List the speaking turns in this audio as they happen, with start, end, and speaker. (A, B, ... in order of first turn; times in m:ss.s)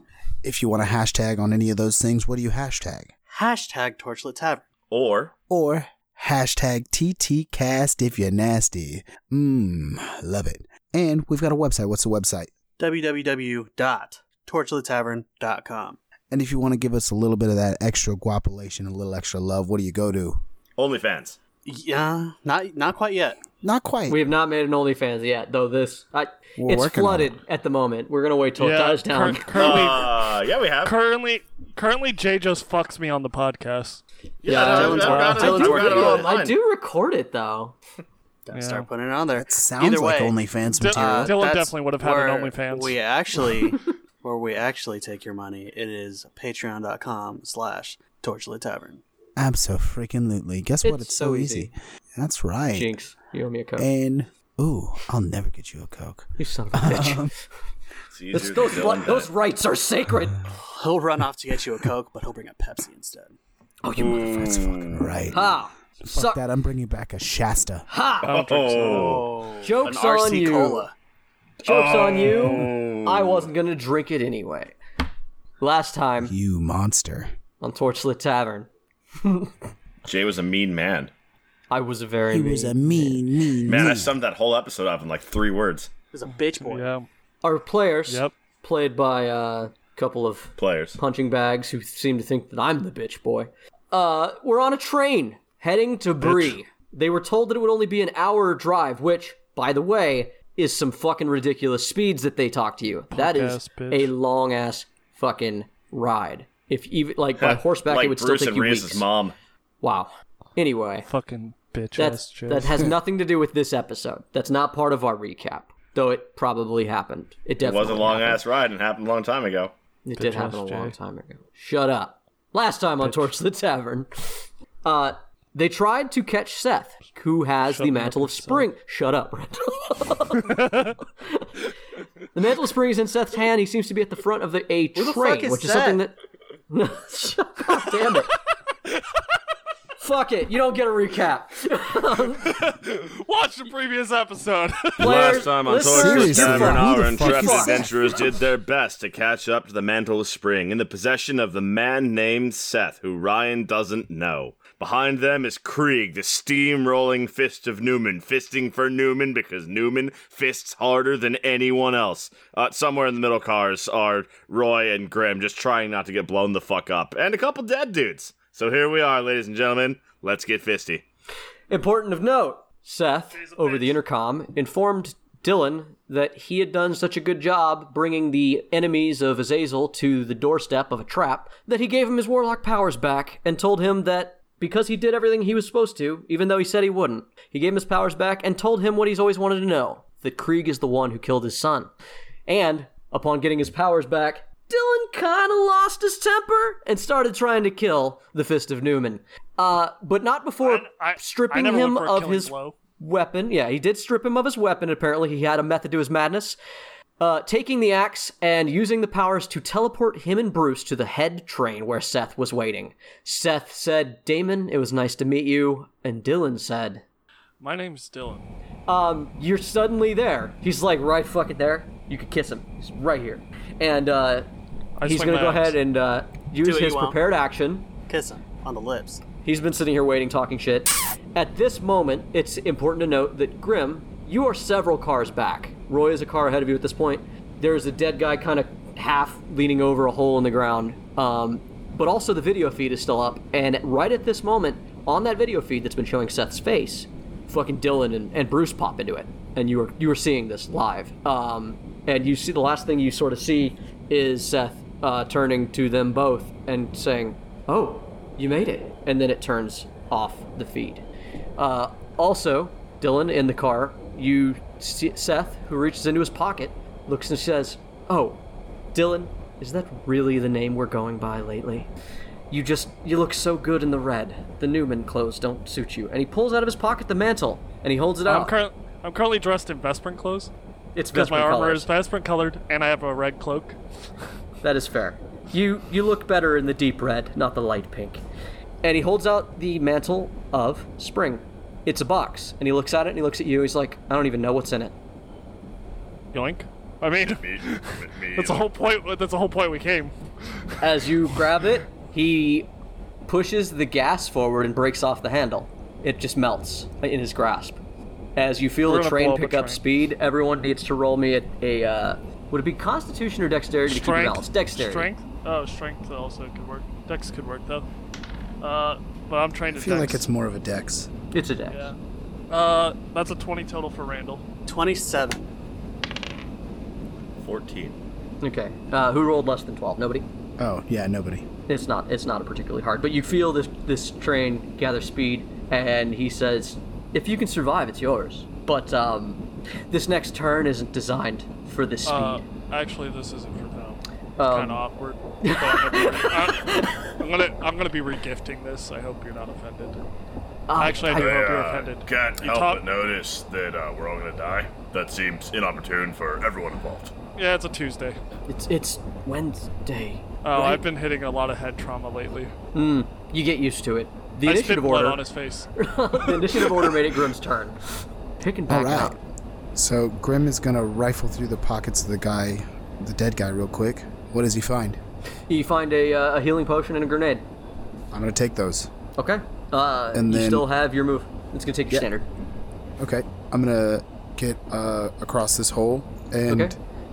0:00.4-0:03.1 A
0:03.3-0:04.7 B
0:04.9-0:05.3 C
0:05.5-0:12.5 A
0:12.8-0:16.0 B
0:16.3-0:20.4 A
0:20.8-0:21.4 C
0:21.6-0:23.4 B
0:23.6-0:24.2 A
0:24.1-0:29.9 D
0:26.6-0:27.4 A
0:28.6-0:30.3 E
0:29.6-0:31.0 C
0:30.8-0:34.0 E
0:34.4-0:36.6 C
0:34.5-0:36.4 B
0:34.5-0:37.8 D
0:34.7-0:35.7 E
0:38.5-0:40.4 B
0:38.5-0:38.9 E
0:39.4-0:41.4 A
0:40.8-0:43.0 E
0:40.9-0:49.0 B
0:49.4-0:52.9 A
0:50.8-0:51.7 D
0:52.8-0:53.9 D
0:53.8-0:57.3 A
0:56.4-0:57.3 D
0:58.1-0:59.3 C
0:58.3-1:00.4 D
1:00.6-1:03.4 B
1:03.8-1:04.7 D
1:04.0-1:05.2 C
1:04.8-1:07.9 A
1:05.3-1:06.4 D
1:07.9-1:08.3 D
1:08.2-1:09.3 E
1:08.3-1:09.3 C
1:08.7-1:10.9 B
1:09.6-1:10.9 D
1:11.6-1:13.5 C
1:11.6-1:14.8 D
1:15.6-1:16.3 D
1:16.2-1:17.3 A
1:17.6-1:18.7 D
1:19.2-1:19.5 D
1:20.0-1:21.1 C
1:21.7-1:23.2 D
1:22.3-1:24.2 A
1:23.6-1:25.9 C
1:26.1-1:26.9 B
1:26.3-1:27.1 E
1:27.4-1:49.1 D
1:28.1-1:28.3 E
1:30.6-1:31.0 C
1:36.2-1:36.6 E
1:43.1-1:44.1 E
1:47.4-1:49.4 C
1:49.8-1:51.1 D
1:51.1-1:52.9 E
1:52.0-1:58.4 D
1:57.6-1:59.7 C
2:00.0-2:10.5 D
2:00.2-2:01.0 E
2:07.7-2:08.7 E
2:10.4-2:11.0 E
2:12.3-2:16.2 D
2:15.0-2:16.0 B
2:16.7-2:18.4 D
2:20.0-2:22.5 D
2:22.5-2:25.1 E
2:25.0-2:27.9 D
2:25.0-2:51.0 C
2:25.9-2:28.1 A
2:51.7-3:11.9 D
2:53.3-2:54.0 E
3:12.5-3:26.6 D
3:20.6-3:22.8 E
3:27.2-3:37.0 D
3:37.6-3:38.5 E
3:38.9-3:44.5 D
3:45.0-3:45.8 E
3:45.0-3:47.9 D
3:46.6-3:47.2 B
3:48.1-3:49.2 B
3:49.4-4:21.0 D
4:21.6-4:28.4 D
4:28.9-4:31.9 D
4:32.5-4:38.5 D
4:38.3-4:40.5 E
4:41.0-4:41.9 D
4:41.1-4:43.8 E
4:44.6-4:48.2 D
4:48.8-4:54.9 D
4:56.3-5:00.1 E
4:57.3-4:58.7 C
5:00.8-5:02.7 D
5:03.3-5:07.8 D
5:08.4-5:15.1 D
5:08.8-5:09.8 E
5:13.9-5:17.9 E
5:18.6-5:20.2 E
5:19.7-5:21.1 A
5:21.3-5:21.9 D
5:22.5-5:24.4 E
5:24.7-5:25.5 B
5:27.4-5:28.0 C
5:28.4-5:30.3 D
5:30.6-5:31.5 A
5:31.7-5:42.4 D
5:42.1-5:50.0 E
5:44.4-5:44.8 D
5:45.4-5:47.0 D
5:50.7-5:51.4 D
5:50.8-5:52.8 E
5:51.0-5:57.1 C
5:57.4-5:58.2 E
5:58.5-6:00.8 D
6:00.4-6:02.5 E
6:02.7-6:05.2 D
6:04.5-6:07.0 E
6:05.8-6:07.8 D
6:08.4-6:09.2 D
6:08.7-6:09.2 A
6:09.8-6:15.0 A
6:15.5-6:17.4 D
6:18.1-6:18.9 A
6:19.2-6:22.3 D
6:20.1-6:20.7 A
6:23.0-6:26.8 A
6:26.5-6:26.8 D